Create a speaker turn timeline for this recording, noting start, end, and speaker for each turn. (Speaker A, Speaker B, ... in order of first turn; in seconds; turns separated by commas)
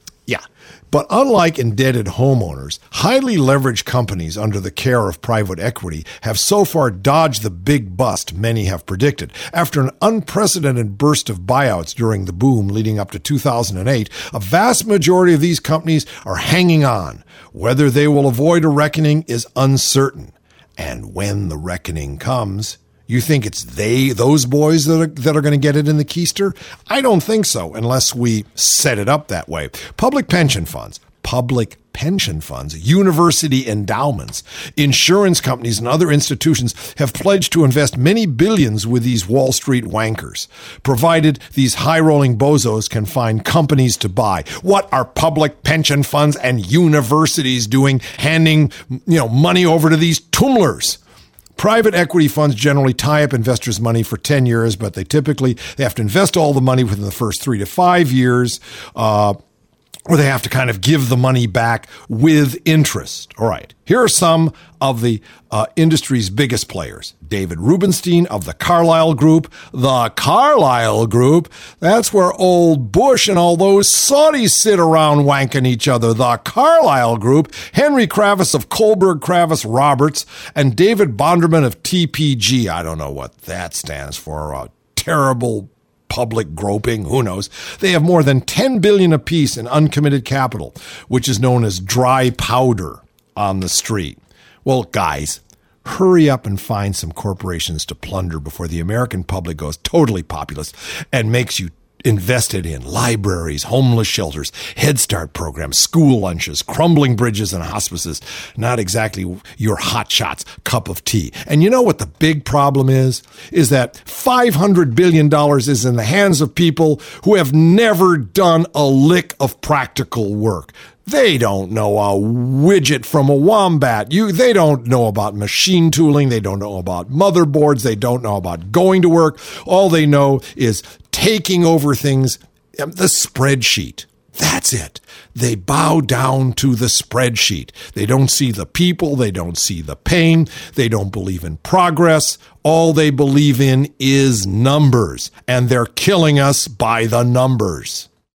Speaker A: 0.3-51.0, Speaker A: 51.6-59.4, Speaker A: 60.1-148.1